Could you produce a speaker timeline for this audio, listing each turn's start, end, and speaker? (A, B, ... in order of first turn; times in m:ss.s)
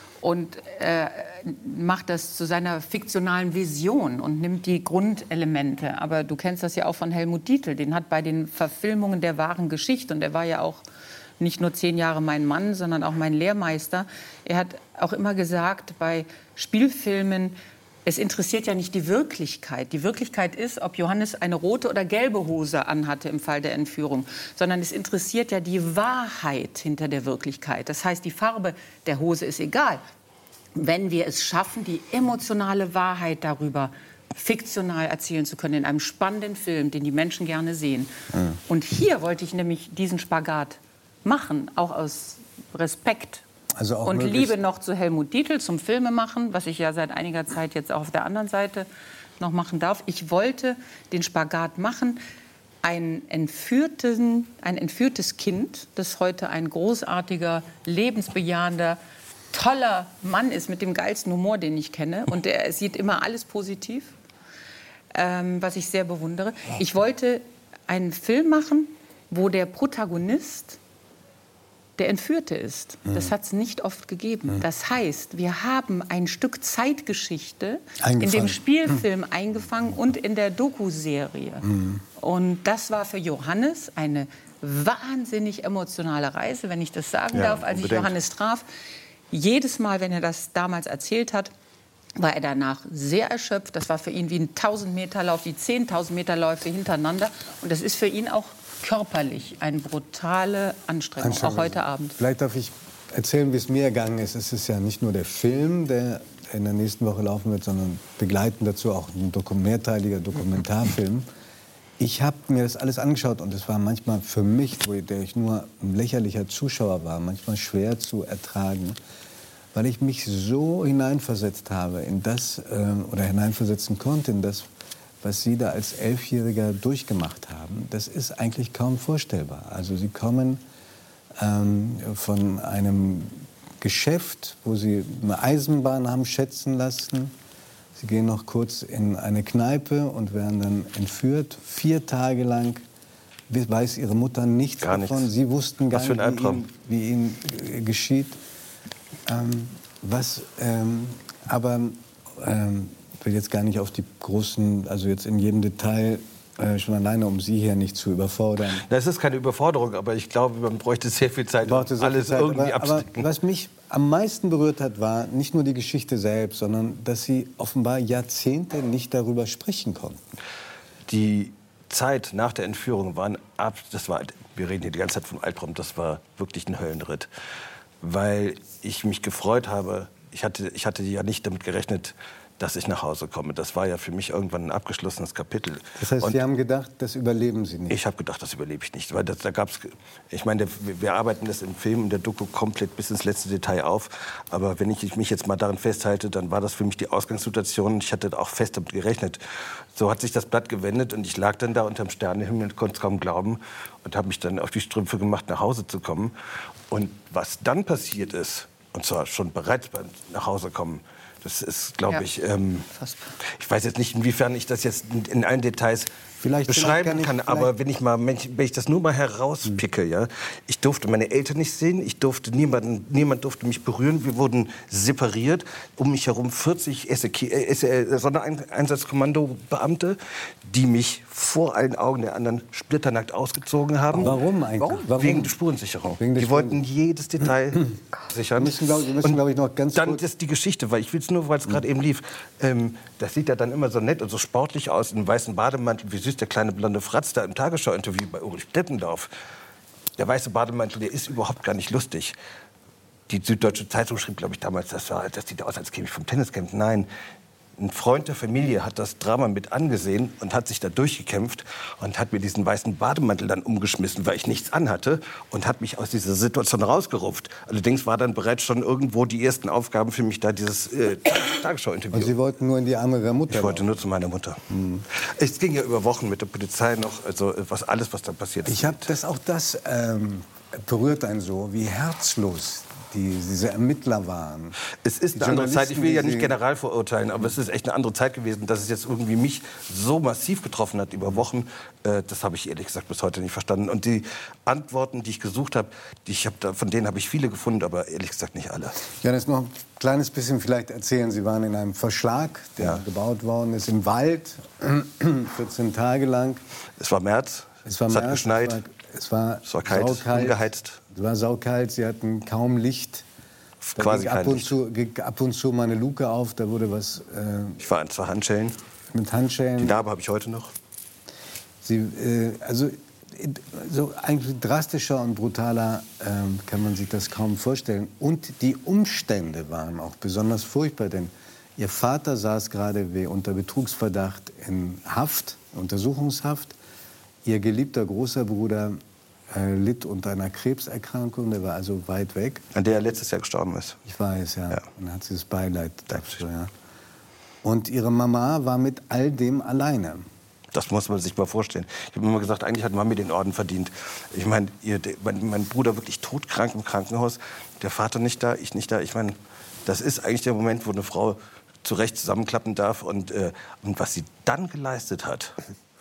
0:00.2-0:10.8 A
0:11.4-0:30.0 A
0:30.7-0:38.1 A
0:38.7-0:43.4 A
0:43.8-0:44.6 B
0:44.0-0:48.9 A
0:49.4-0:52.2 A
0:52.8-0:59.0 A
0:59.5-1:04.1 A
1:05.1-1:10.8 A
1:12.0-1:28.6 A
1:18.0-1:18.6 B
1:21.6-1:22.0 B
1:27.3-1:28.1 C
1:29.3-1:31.5 A
1:32.2-1:42.1 A
1:41.2-1:51.3 B
1:52.0-1:59.0 B
1:59.7-2:04.7 B
2:05.2-2:10.6 B
2:11.4-2:17.3 B
2:18.0-2:22.8 B
2:23.5-2:28.4 B
2:24.8-2:25.3 C
2:25.9-2:26.6 C
2:29.3-2:38.8 B
2:38.8-2:43.3 C
2:41.6-2:50.2 B
2:51.1-2:57.3 C
2:58.0-3:06.4 C
3:06.0-3:08.0 B
3:07.9-3:19.4 C
3:19.9-3:26.3 C
3:26.9-3:32.9 C
3:32.9-3:33.3 A
3:33.6-3:36.1 C
3:36.4-3:37.7 B
3:36.6-3:59.4 C
3:54.1-3:55.5 B
3:56.2-3:56.8 B
3:58.6-4:00.2 B
3:59.9-4:09.3 C
4:10.2-4:12.4 C
4:13.3-4:17.1 C
4:17.8-4:32.4 C
4:32.1-4:34.0 B
4:33.5-4:34.6 C
4:34.7-4:35.1 B
4:35.2-4:39.1 C
4:38.6-4:44.8 B
4:45.0-4:59.0 C
4:45.3-4:46.6 B
4:59.1-5:06.6 B
5:07.0-5:08.8 C
5:07.8-5:13.2 B
5:09.6-5:11.0 C
5:13.8-5:14.7 C
5:14.0-5:17.8 B
5:17.8-5:18.8 C
5:19.1-5:20.0 B
5:19.8-5:20.7 C
5:21.8-5:36.8 B
5:37.4-5:39.0 B
5:39.5-5:42.6 B
5:42.7-5:44.0 C
5:44.0-5:46.7 B
5:46.1-5:46.4 C
5:47.6-5:50.2 B
5:50.7-6:05.5 C